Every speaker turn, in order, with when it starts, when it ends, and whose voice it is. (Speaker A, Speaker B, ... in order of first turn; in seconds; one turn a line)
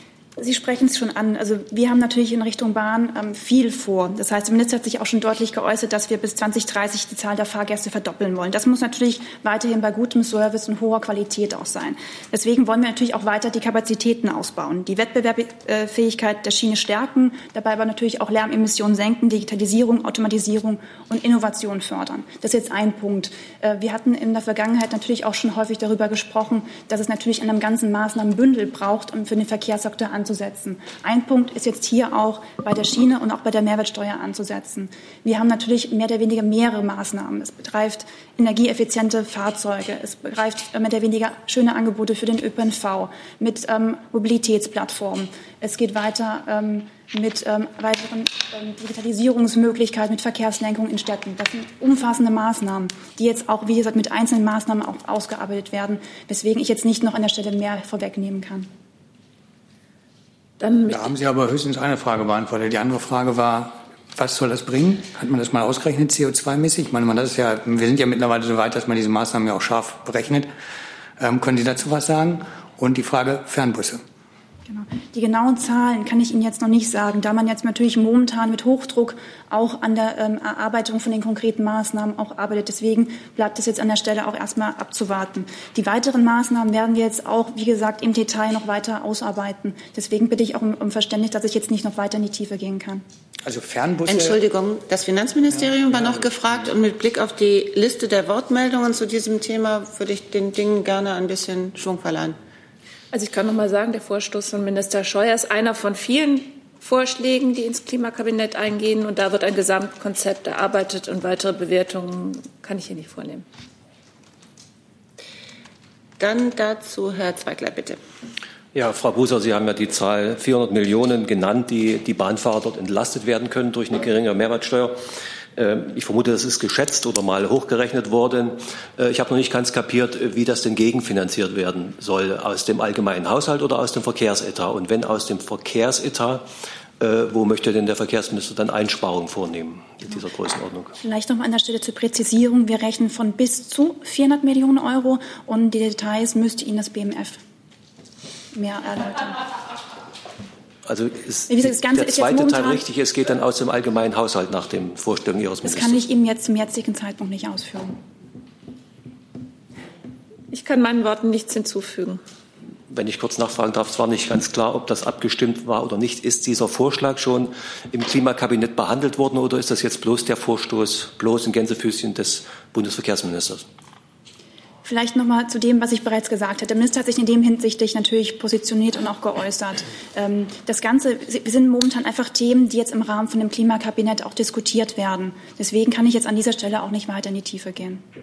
Speaker A: 0.4-58.7
Speaker B: 60.6-61.1
Speaker C: 60.9-70.5
Speaker C: 71.2-74.0
Speaker A: 74.7-93.0
Speaker C: 93.5-94.4
Speaker D: 94.1-102.4
Speaker C: 95.5-96.7
Speaker B: 103.1-113.4
Speaker D: 116.2-118.0
Speaker E: 118.7-125.0
Speaker E: 125.6-136.5
Speaker E: 137.0-140.9
Speaker A: 141.0-147.4
Speaker A: 148.5-149.3
Speaker E: 150.9-156.0
Speaker A: 151.5-152.8
Speaker A: 155.6-158.0
Speaker B: 160.5-162.2
Speaker E: 162.9-173.7
Speaker A: 174.8-188.0